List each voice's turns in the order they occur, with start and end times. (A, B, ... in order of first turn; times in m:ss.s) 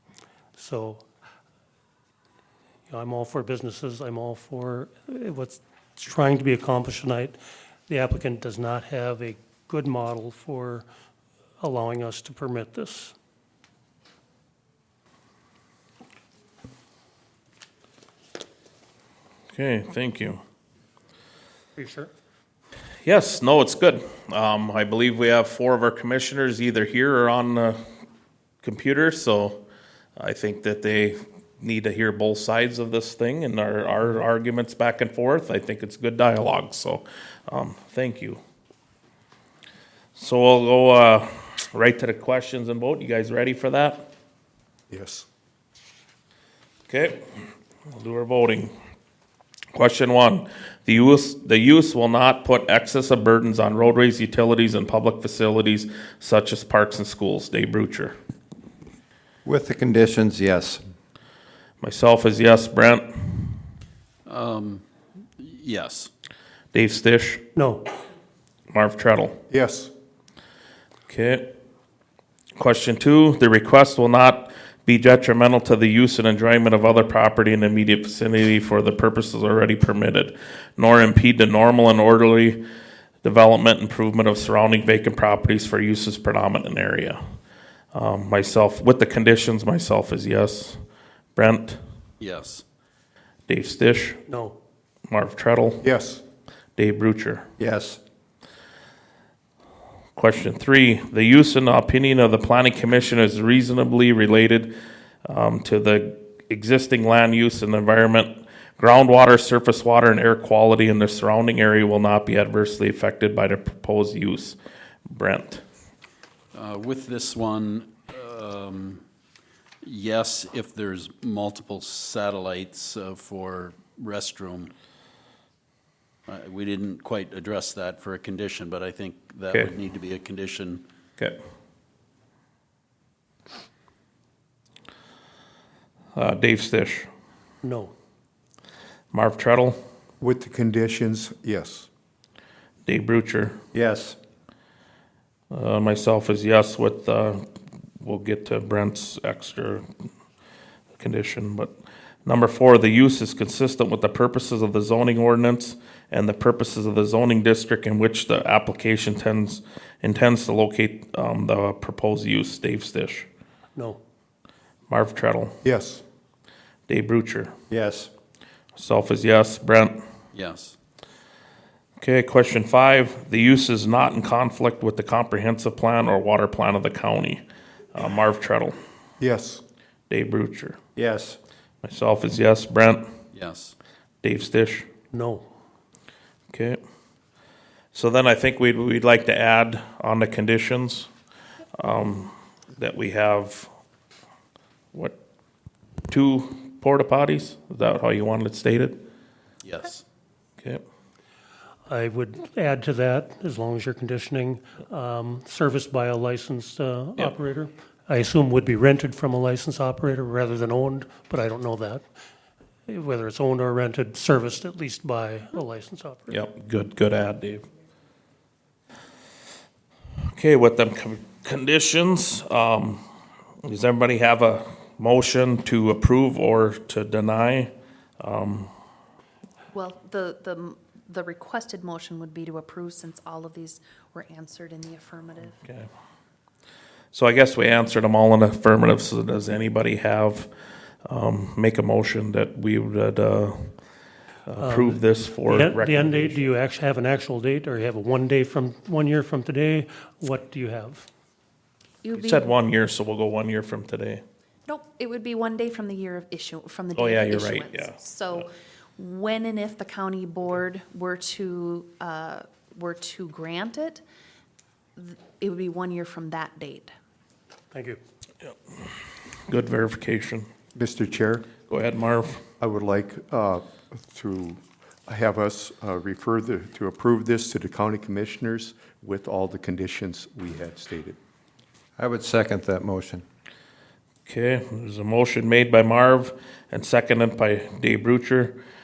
0:00.6-0:01.0 A
0:02.9-0:10.8 A
0:11.6-0:13.1 A
0:19.5-0:20.4 B
0:21.8-0:22.1 A
0:23.0-0:27.8 B
0:28.6-0:29.6 B
0:30.2-0:38.4 B
0:40.1-0:44.1 B
0:44.9-0:45.2 C
0:46.9-0:47.2 B
0:47.9-0:48.7 B
0:49.7-0:58.2 B
0:59.4-1:00.8 D
1:01.8-1:03.6 B
1:04.3-1:04.8 E
1:05.4-1:06.1 E
1:06.7-1:07.4 B
1:07.6-1:07.9 A
1:08.7-1:09.4 B
1:09.5-1:09.9 C
1:11.1-1:11.5 B
1:12.6-1:22.6 B
1:23.2-1:27.2 B
1:27.9-1:30.8 B
1:31.4-1:31.8 B
1:32.2-1:32.6 E
1:33.5-1:34.2 B
1:34.3-1:34.6 A
1:35.1-1:35.8 B
1:35.8-1:36.2 C
1:36.8-1:37.5 B
1:37.6-1:38.0 D
1:40.2-1:44.7 B
1:45.2-1:54.6 B
1:55.1-1:55.6 B
1:56.6-1:59.0 E
1:59.8-2:04.7 E
2:06.3-2:10.8 E
2:09.5-2:09.7 B
2:16.2-2:17.1 B
2:17.6-2:17.9 A
2:19.1-2:19.8 B
2:20.2-2:21.9 C
2:22.8-2:23.6 B
2:23.7-2:24.2 D
2:25.5-2:27.4 B
2:28.0-2:29.8 B
2:31.0-2:31.7 B
2:32.2-2:43.3 B
2:43.7-2:44.0 A
2:44.9-2:45.5 B
2:45.6-2:46.0 C
2:46.9-2:47.5 B
2:47.7-2:48.1 D
2:48.8-2:50.0 B
2:50.3-2:50.7 E
2:52.0-2:57.4 B
2:57.9-2:58.8 B
2:59.2-2:59.6 C
3:00.1-3:00.8 B
3:01.0-3:01.4 D
3:01.8-3:03.0 B
3:03.4-3:03.7 E
3:04.2-3:04.9 B
3:05.1-3:05.5 A
3:06.5-3:06.8 B
3:07.9-3:11.1 B
3:11.8-3:13.7 B
3:16.1-3:19.0 B
3:19.6-3:20.0 E
3:21.9-3:32.0 A
3:32.9-3:36.4 A
3:36.3-3:37.7 B
3:40.3-3:43.0 B
3:43.6-3:48.7 B
3:49.7-3:55.5 F
3:57.1-4:00.5 B
4:01.1-4:03.7 B
4:04.5-4:06.5 B
4:04.6-4:11.1 A
4:12.0-4:12.5 F
4:12.1-4:14.2 B
4:14.6-4:24.0 F
4:16.9-4:18.5 B
4:25.0-4:26.9 F
4:27.7-4:28.0 A
4:29.5-4:30.4 B
4:30.7-4:31.5 C
4:31.7-4:32.4 B
4:32.6-4:41.2 C
4:42.0-4:43.2 D
4:44.3-4:48.6 B